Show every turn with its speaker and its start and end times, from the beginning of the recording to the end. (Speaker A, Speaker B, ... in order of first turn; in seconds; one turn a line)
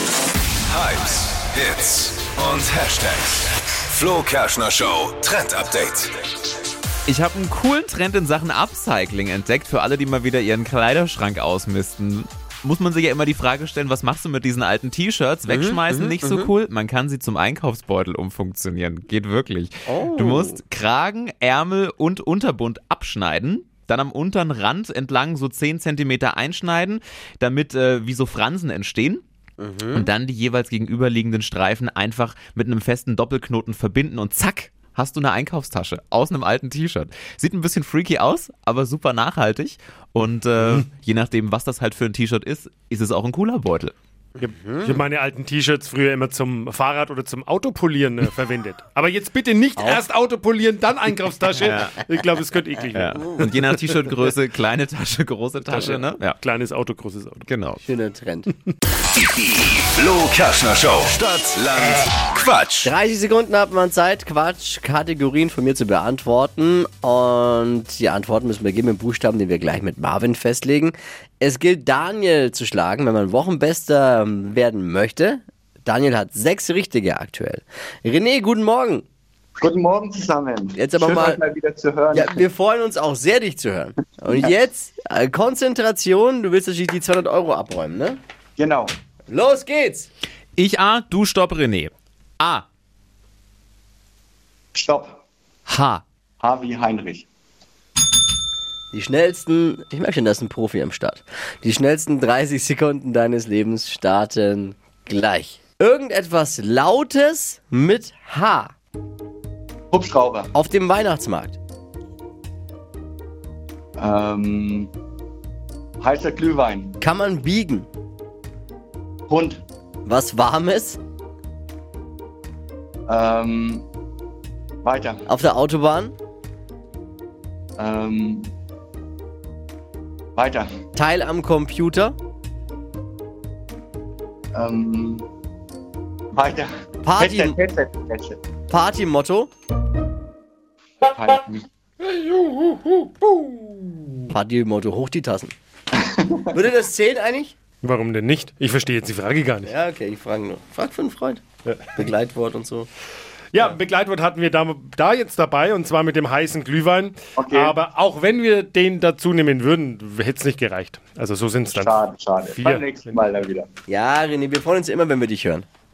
Speaker A: 0.7-6.2
Speaker B: 7.1-29.2
Speaker C: 15.5-16.5
Speaker C: 19.9-20.6
Speaker C: 29.6-30.1
Speaker B: 29.9-43.9
Speaker D: 40.6-40.9
Speaker C: 44.4-45.0
Speaker D: 44.4-53.2
Speaker C: 49.8-50.0
Speaker B: 51.6-52.0
Speaker B: 52.9-56.4
Speaker C: 53.1-53.5
Speaker D: 55.7-57.6
Speaker B: 57.5-57.8
Speaker C: 57.8-58.5
Speaker A: 59.1-62.9
Speaker C: 62.8-79.0
Speaker E: 79.6-82.4
Speaker C: 80.8-81.4
Speaker C: 82.1-88.2
Speaker E: 88.6-88.9
Speaker C: 89.3-90.1
Speaker B: 90.6-92.6
Speaker E: 94.7-95.2
Speaker B: 95.7-96.0
Speaker E: 96.4-97.3
Speaker C: 98.9-108.7
Speaker E: 109.9-110.5
Speaker C: 110.5-111.6
Speaker E: 114.0-114.9
Speaker E: 116.0-117.0
Speaker C: 117.0-117.9
Speaker E: 119.3-119.6
Speaker C: 120.0-121.0
Speaker E: 123.1-123.9
Speaker E: 124.8-125.3
Speaker C: 125.3-126.1
Speaker E: 127.8-128.5
Speaker E: 130.3-130.7
Speaker C: 130.9-132.2
Speaker E: 134.5-135.3
Speaker E: 136.3-138.4
Speaker C: 137.0-137.6
Speaker C: 138.7-139.5
Speaker E: 141.0-141.7
Speaker D: 142.3-143.0
Speaker C: 144.3-145.5
Speaker E: 146.1-146.5
Speaker C: 146.5-147.5
Speaker D: 147.8-149.7
Speaker C: 149.6-152.9
Speaker D: 153.5-163.1
Speaker E: 157.4-157.7
Speaker E: 161.7-163.7
Speaker C: 163.9-165.7